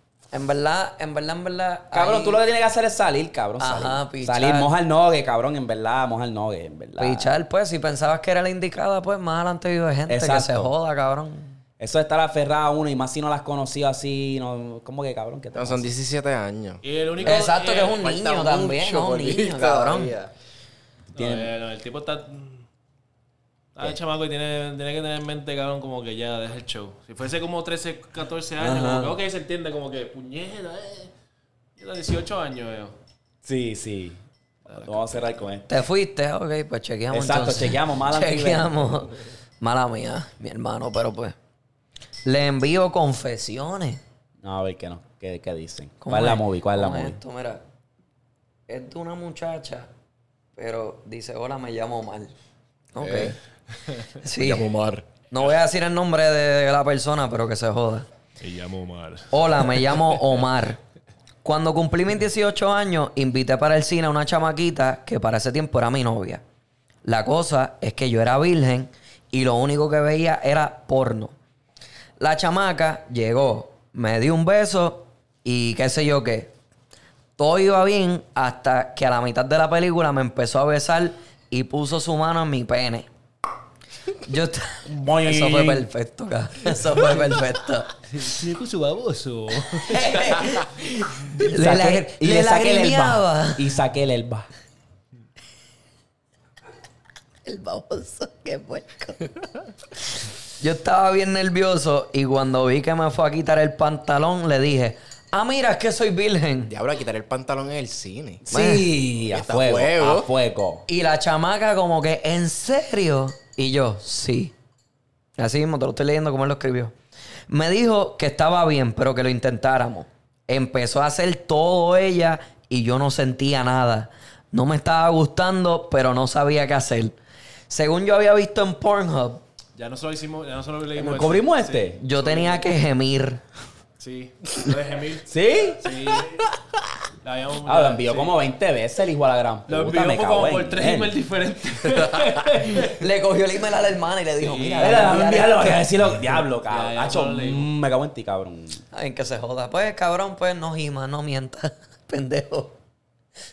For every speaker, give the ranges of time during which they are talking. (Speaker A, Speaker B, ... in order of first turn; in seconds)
Speaker A: 0.3-2.4, 3.6-4.7, 7.0-11.6, 17.2-20.1, 35.7-41.4, 42.2-44.0, 46.0-47.6, 48.7-49.9, 50.6-52.3, 52.9-53.4, 54.2-54.7, 55.3-58.1, 59.3-60.8, 61.4-66.4, 67.0-71.3, 72.2-76.5, 77.4-83.1, 84.2-87.9, 89.8-93.7, 97.5-99.2, 100.6-106.7, 108.5-108.9, 110.9-114.5, 115.4-116.9, 117.5-127.2, 127.7-129.4, 132.0-133.4, 142.7-145.8, 148.9-152.8
Speaker B: 1.9-7.3, 10.1-10.7, 11.8-15.9, 21.2-21.5, 28.6-29.2, 33.4-34.2, 34.7-35.8, 37.1-38.7, 44.4-47.2, 84.9-85.8, 91.4-94.5, 108.4-110.8, 131.0-132.0, 135.2-136.0, 137.7-141.2, 144.8-148.8
Speaker C: 15.6-16.8, 18.0-20.3, 106.7-108.4, 109.3-110.3
Speaker D: 16.8-18.1, 21.1-22.6, 23.8-31.1, 31.8-33.0, 54.4-55.0, 58.4-60.2, 88.1-90.5, 129.8-132.7, 134.0-135.3, 135.8-136.4, 137.2-138.4, 139.7-142.9, 144.4-145.2, 146.7-147.7